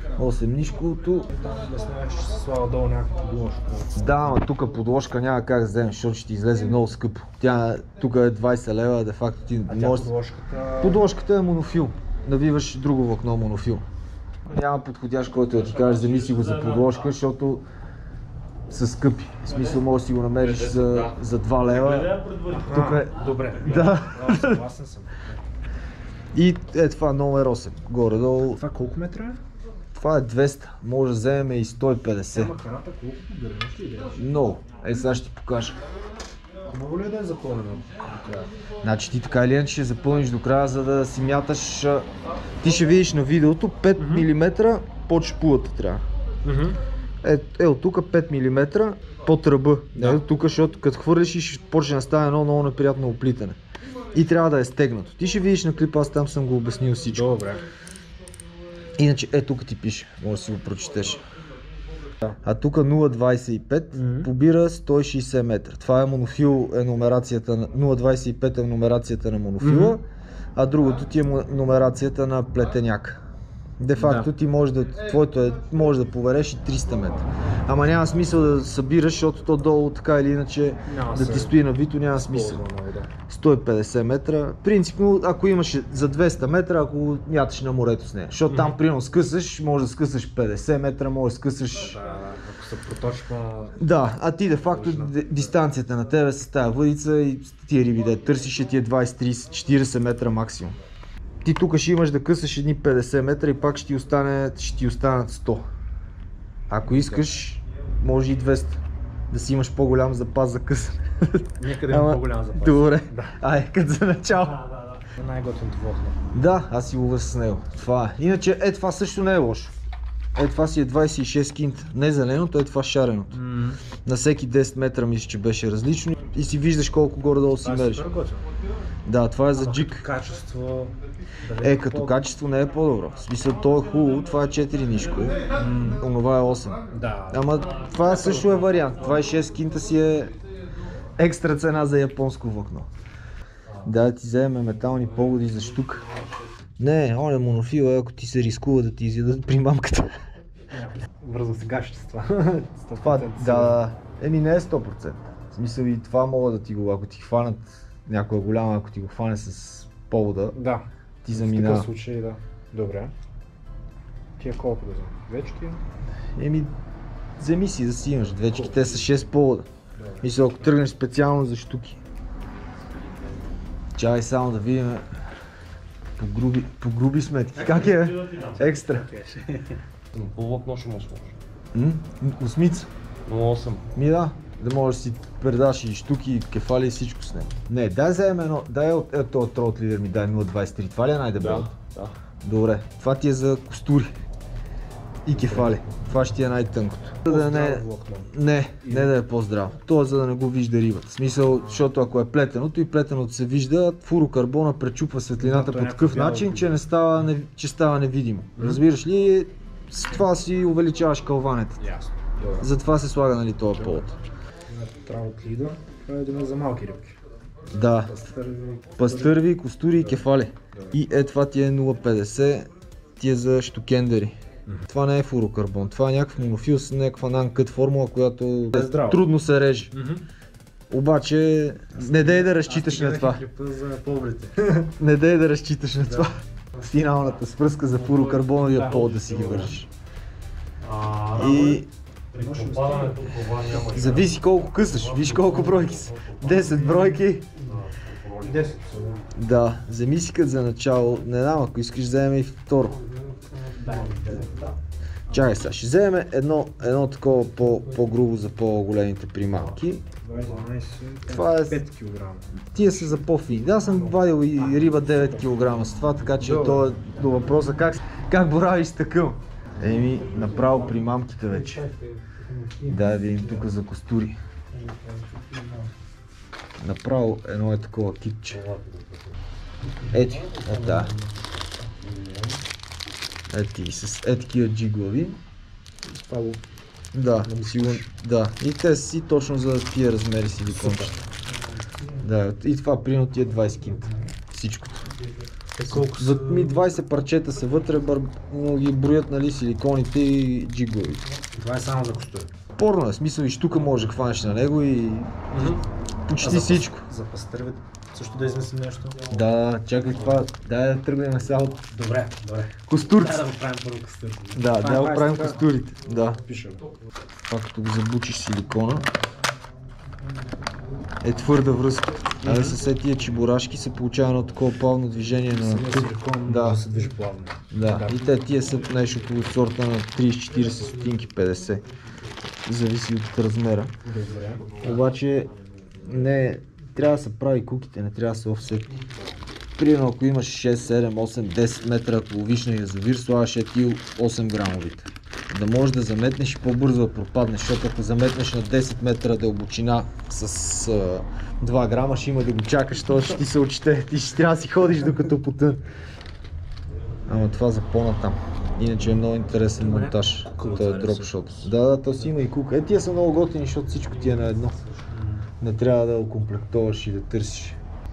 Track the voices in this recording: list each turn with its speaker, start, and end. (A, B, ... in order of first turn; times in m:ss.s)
0:00.1-0:01.3 A
0:01.3-0:04.4 B
0:04.0-0:10.1 A
0:09.7-0:11.0 B
0:10.8-0:13.8 A
0:14.4-0:17.6 A
0:15.6-0:17.1 C
0:18.7-0:22.1 A
0:19.5-0:19.8 B
0:20.4-0:23.0 C
0:22.5-0:25.4 B
0:22.7-0:24.6 A
0:26.3-0:28.6 A
0:28.4-0:29.4 B
0:29.9-0:32.5 A
0:32.3-0:34.2 B
0:34.2-0:35.8 A
0:36.6-0:38.5 B
0:38.8-0:42.0 A
0:42.6-0:46.0 A
0:44.0-0:44.3 B
0:46.4-0:46.8 B
0:47.2-0:53.6 A
0:50.0-0:50.2 B
0:54.1-0:57.4 A
0:57.1-0:57.6 B
0:59.0-1:01.2 A
1:02.3-1:10.0 A
1:03.9-1:04.3 B
1:09.6-1:10.0 B
1:10.5-1:13.2 A
1:13.8-1:22.6 A
1:14.0-1:14.3 B
1:20.9-1:21.6 B
1:22.1-1:23.1 B
1:23.3-1:32.0 A
1:31.8-1:33.8 B
1:33.8-1:40.8 A
1:34.6-1:35.5 B
1:41.4-1:45.6 A
1:46.7-1:54.6 A
1:46.9-1:47.3 B
1:51.6-1:53.4 B
1:55.1-1:56.2 B
1:56.3-1:59.7 A
2:00.3-2:03.4 A
2:03.3-2:03.8 B
2:04.0-2:08.0 A
2:07.4-2:08.5 B
2:09.0-2:10.0 A
2:09.5-2:12.2 B
2:11.6-2:15.4 A
2:15.5-2:16.0 B
2:16.0-2:16.8 A
2:16.9-2:17.6 B
2:17.3-2:20.3 A
2:17.7-2:19.2 C
2:21.2-2:22.9 A
2:23.8-2:26.1 A
2:26.8-2:30.1 A
2:30.7-2:33.8 B
2:33.0-2:40.6 A
2:40.5-2:43.1 B
2:41.2-2:41.9 A
2:44.4-2:45.8 B
2:46.4-2:46.7 A
2:47.4-2:49.7 A
2:48.4-2:49.3 B
2:49.9-2:50.3 B
2:50.2-2:52.0 A
2:54.0-2:55.2 A
2:56.2-2:59.1 A
2:57.6-2:58.6 C
2:58.6-2:59.8 B
3:00.1-3:01.4 C
3:01.7-3:02.9 A
3:03.2-3:03.8 C
3:03.9-3:11.7 A
3:11.4-3:12.2 C
3:12.4-3:14.1 A
3:15.2-3:31.8 A
3:15.3-3:15.8 B
3:17.2-3:19.1 B
3:21.5-3:21.9 B
3:25.4-3:26.7 B
3:28.6-3:28.8 B
3:31.8-3:32.7 B
3:32.6-3:34.1 A
3:33.8-3:34.1 B
3:34.7-3:37.2 B
3:37.7-3:38.1 A
3:38.0-3:39.4 B
3:39.0-3:44.4 A
3:40.0-3:41.0 B
3:44.9-3:49.9 A
3:48.7-3:49.3 B
3:49.9-3:50.2 B
3:50.9-3:53.4 A
3:51.9-3:54.9 B
3:55.0-3:59.9 A
3:57.9-3:58.6 C
3:58.6-3:59.8 B
4:00.8-4:01.8 C
4:01.3-4:01.9 A
4:01.4-4:01.8 B
4:02.3-4:08.8 C
4:02.3-4:04.2 B
4:03.7-4:07.5 A
4:06.6-4:07.1 B
4:08.4-4:09.2 B
4:09.3-4:13.0 A
4:13.8-4:14.7 B
4:15.3-4:20.0 A
4:20.2-4:25.6 B
4:21.3-4:21.8 A
4:22.7-4:31.8 A
4:26.2-4:27.0 B
4:29.8-4:31.0 B
4:31.6-4:33.0 B
4:32.8-4:34.4 A
4:34.8-4:35.8 B
4:36.8-4:38.6 A
4:38.5-4:39.4 C
4:40.0-4:41.4 B
4:40.1-4:41.1 A
4:42.0-4:42.6 C
4:43.5-4:45.4 A
4:46.0-4:46.6 B
4:47.1-4:51.2 A
4:47.4-4:48.1 B
4:50.7-4:51.2 B
4:52.2-4:55.1 A
4:55.8-4:56.8 B
4:55.9-5:01.2 A
5:01.5-5:02.5 B
5:02.8-5:05.7 A
5:05.5-5:05.8 B
5:06.3-5:07.0 A
5:06.4-5:09.2 B
5:09.3-5:11.8 A
5:11.9-5:15.7 B
5:12.9-5:13.4 A
5:14.5-5:16.4 A
5:16.4-5:16.8 B
5:17.4-5:19.1 A
5:21.2-5:26.8 A
5:22.4-5:22.8 B
5:25.5-5:28.2 B
5:27.7-5:31.8 A
5:32.6-5:33.9 A
5:34.0-5:34.8 B
5:34.8-5:35.5 A
5:36.0-5:39.0 A
5:39.8-5:55.8 A
5:57.2-6:04.8 A
5:59.8-6:01.7 B
6:04.2-6:05.4 C
6:05.6-6:07.8 A